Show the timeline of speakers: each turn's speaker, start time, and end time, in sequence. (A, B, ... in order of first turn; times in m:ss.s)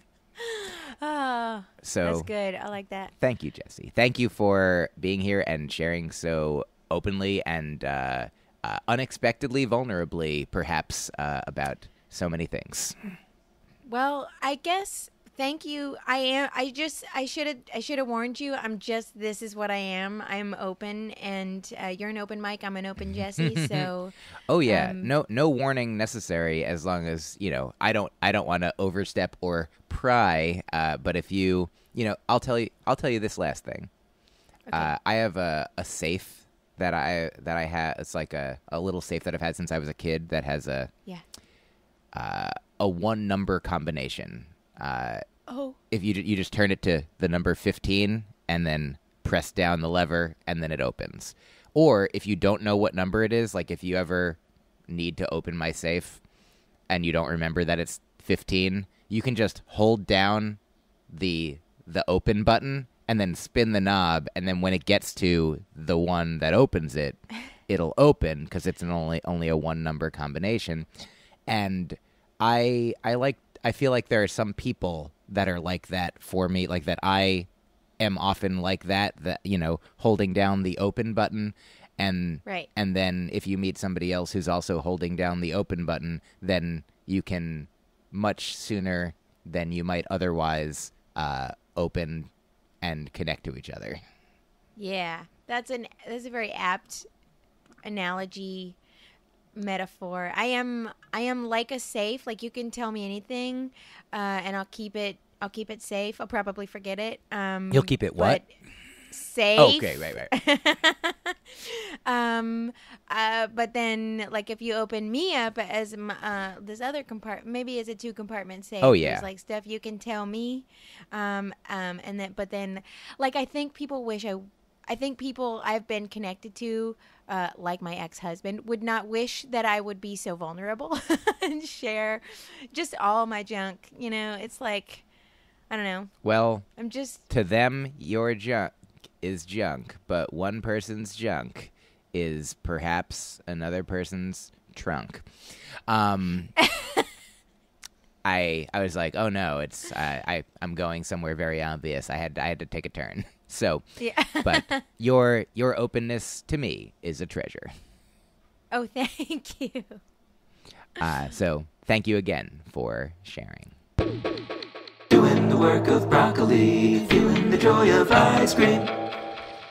0:00.4-0:03.1 A
0:01.8-0:02.3 B
0:03.2-0:13.0 B
0:13.9-0:24.1 A
0:23.4-0:23.9 B
0:24.5-0:33.9 B
0:24.6-0:25.1 A
0:34.7-0:40.9 B
0:42.1-0:45.2 B
0:45.5-0:45.8 A
0:45.9-0:56.2 B
0:56.9-1:00.6 B
1:01.1-1:10.9 B
1:11.5-1:17.5 B
1:18.0-1:32.3 B
1:32.8-1:34.0 B
1:34.8-1:37.1 A
1:37.8-1:38.8 A
1:39.6-1:48.5 A
1:47.7-1:48.4 B
1:49.1-2:15.0 A
1:49.6-1:50.3 B
1:58.8-1:59.3 B
2:15.7-2:16.1 A
2:16.2-2:16.7 B
2:16.8-2:17.3 A
2:17.3-2:25.3 B
2:25.9-2:26.5 B
2:26.6-2:27.1 A
2:28.2-2:33.9 B
2:34.0-2:34.8 A
2:34.4-2:37.7 B
2:38.7-2:40.0 A
2:41.0-2:43.8 B
2:45.1-2:48.9 C